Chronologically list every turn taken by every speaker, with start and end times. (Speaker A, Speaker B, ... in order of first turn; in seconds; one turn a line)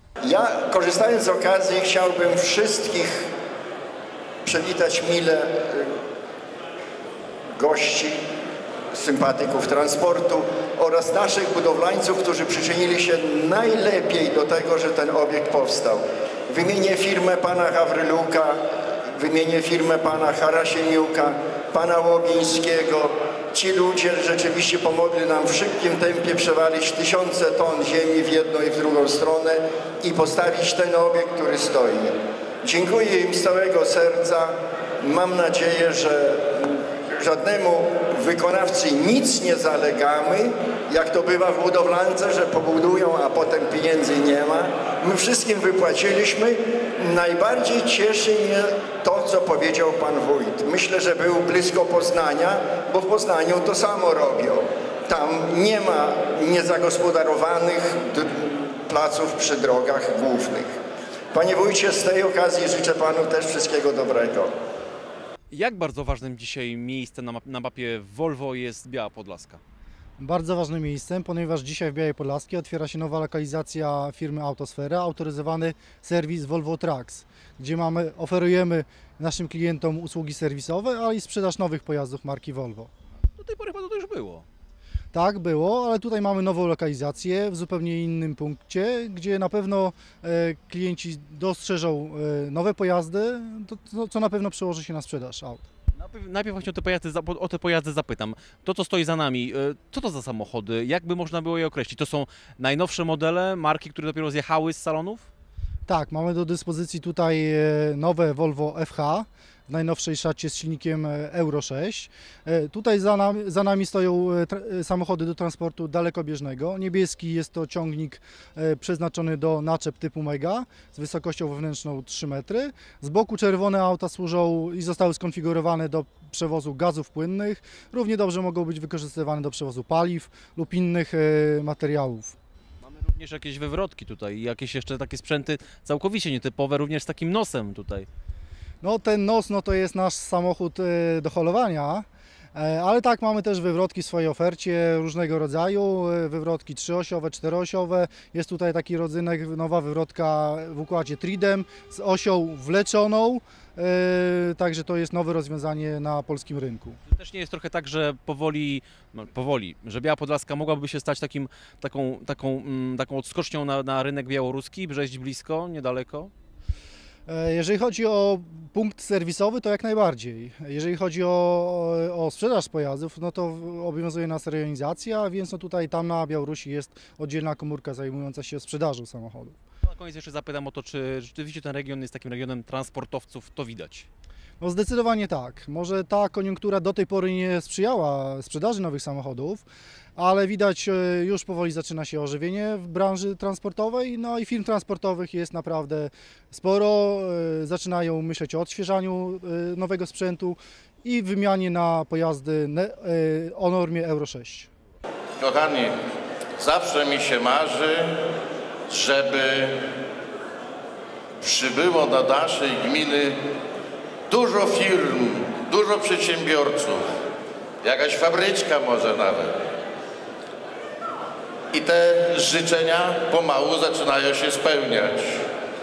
Speaker A: 0.2-3.3
Speaker A: 4.5-5.9
Speaker A: 7.6-8.2
Speaker A: 8.9-18.6
Speaker A: 19.2-60.7
Speaker A: 61.3-64.5
Speaker B: 65.5-69.6
Speaker C: 70.2-82.9
Speaker B: 83.3-84.5
Speaker C: 85.1-95.7
Speaker B: 96.0-105.3
Speaker C: 105.9-132.4
Speaker B: 132.8-138.1
Speaker C: 138.8-157.0
Speaker B: 157.1-166.3
Speaker C: 167.3-179.6
Speaker B: 179.8-184.1
Speaker C: 184.6-189.6
Speaker C: 190.2-204.7
Speaker D: 205.4-205.9
Speaker D: 206.6-208.2
Speaker D: 208.9-209.8
Speaker D: 211.4-213.3
Speaker D: 214.3-217.0
Speaker D: 217.8-219.5
Speaker D: 221.7-225.4